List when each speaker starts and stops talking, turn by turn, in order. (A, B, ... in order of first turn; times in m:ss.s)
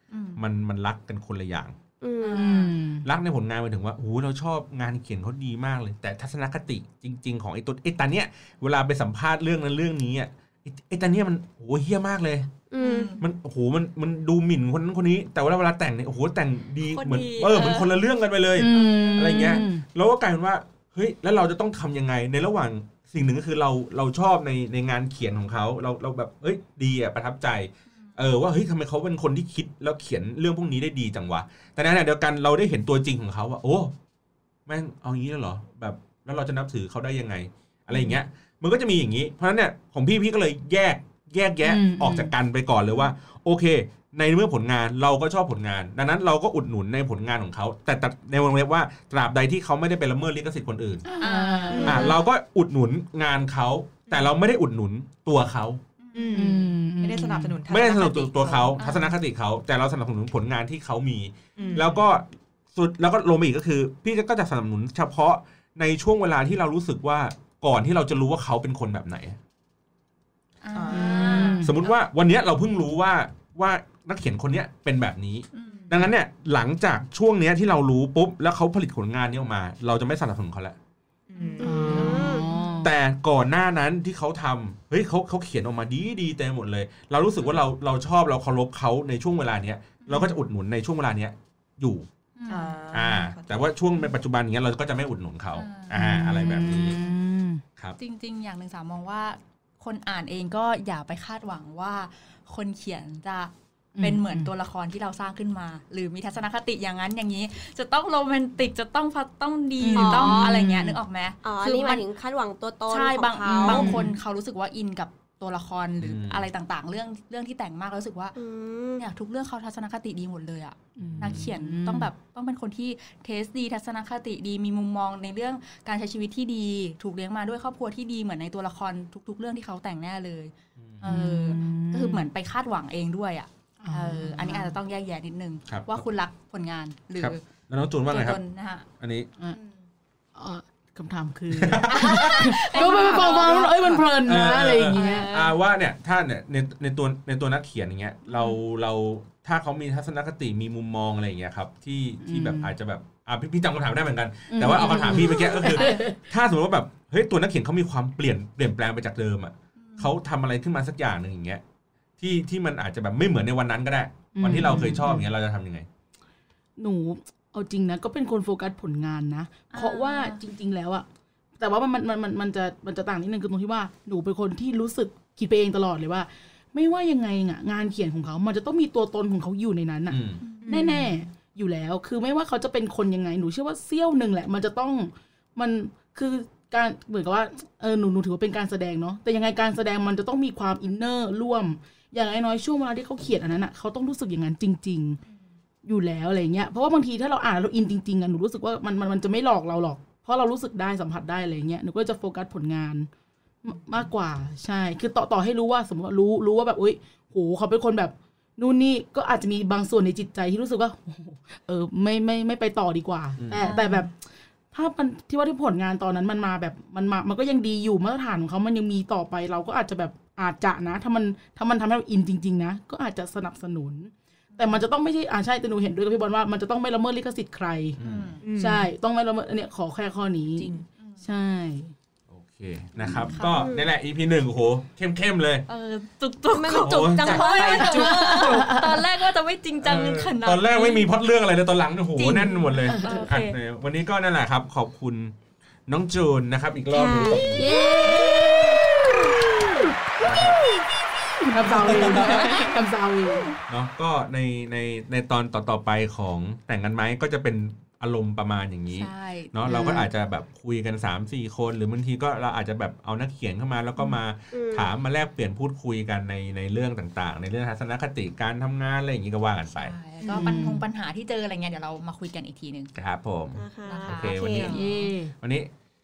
0:00.1-0:00.4 A
0:00.4-0:01.8 B
0:02.0-0:02.6 C
0:02.2-0:02.7 A
0:02.4-0:03.0 D
0:03.0-0:12.5 B
0:12.7-0:13.2 C
0:12.8-0:13.2 A
0:13.2-0:33.9 B
0:16.9-0:18.0 A
0:18.6-0:19.8 D
0:18.7-0:19.7 A
0:34.7-0:51.0 B
0:41.6-0:42.3 D
0:51.0-0:52.1 D
0:51.2-0:52.2 A
0:51.7-0:52.2 E
0:51.8-0:55.8 B
0:54.1-0:54.3 E
0:56.0-0:56.5 A
0:56.1-0:58.8 E
0:56.3-0:57.6 D
0:57.7-1:09.4 B
0:58.8-0:59.2 A
1:01.6-1:02.0 E
1:01.6-1:01.9 A
1:10.6-1:11.9 A
1:10.7-1:11.6 E
1:10.9-1:11.8 D
1:11.6-1:20.8 B
1:15.5-1:15.9 A
1:15.6-1:16.0 E
1:21.3-1:22.2 E
1:21.4-1:22.9 A
1:21.6-1:22.9 D
1:21.8-1:22.5 C
1:22.8-1:32.1 B
1:30.0-1:30.3 A
1:32.4-1:32.7 A
1:32.5-1:33.7 E
1:32.9-1:37.0 B
1:35.5-1:37.0 A
1:35.9-1:37.6 D
1:38.0-1:52.0 A
1:44.0-1:44.5 D
1:49.8-1:51.0 D
1:49.9-1:50.5 C
1:51.4-1:53.9 C
1:52.9-1:58.3 A
1:53.6-1:54.1 D
1:56.0-1:56.5 B
1:58.3-1:59.0 C
1:59.0-2:17.4 A
2:01.0-2:01.5 B
2:01.0-2:02.1 D
2:11.0-2:12.2 D
2:13.8-2:14.7 D
2:15.7-2:16.0 B
2:17.2-2:18.4 B
2:18.1-2:18.9 A
2:19.0-2:19.3 B
2:20.3-2:25.3 D
2:21.5-2:22.6 B
2:21.9-2:25.6 A
2:24.2-2:41.6 B
2:28.3-2:28.6 A
2:32.2-2:32.7 D
2:34.5-2:36.2 D
2:34.8-2:36.1 A
2:39.8-2:40.1 A
2:42.2-2:45.9 B
2:44.3-2:45.3 D
2:46.8-2:51.0 D
2:49.7-2:50.4 A
2:51.6-3:15.2 D
3:00.1-3:00.4 B
3:00.4-3:01.0 A
3:00.6-3:01.1 E
3:15.8-3:23.1 D
3:23.6-3:48.0 D
3:33.4-3:33.7 B
3:33.6-3:34.1 A
3:44.5-3:44.8 A
3:48.0-3:48.4 B
3:48.0-3:48.4 A
3:48.4-3:48.9 E
3:48.5-3:51.9 D
3:50.6-3:50.8 E
3:50.6-3:51.3 A
3:52.3-3:55.6 B
3:53.0-3:53.3 D
3:53.3-3:53.6 A
3:53.5-3:53.9 C
3:55.7-4:01.1 A
3:56.5-3:58.2 C
3:56.8-3:57.4 B
3:57.2-3:58.8 E
3:57.8-3:59.1 D
3:59.8-4:05.3 B
4:02.2-4:03.6 A
4:02.8-4:03.3 D
4:05.9-4:07.7 B
4:06.9-4:09.7 C
4:07.6-4:08.7 D
4:10.2-4:10.6 B
4:11.4-4:13.5 D
4:11.6-4:12.6 A
4:11.7-4:12.3 B
4:11.7-4:12.6 E
4:13.7-4:29.9 B
4:18.9-4:19.5 A
4:19.6-4:20.1 D
4:24.5-4:24.9 C
4:29.7-4:32.9 A
4:30.2-4:30.6 E
4:30.3-4:30.8 D
4:32.9-4:34.9 B
4:33.6-4:34.8 C
4:33.9-4:35.1 A
4:34.7-4:35.3 D
4:35.4-4:35.7 B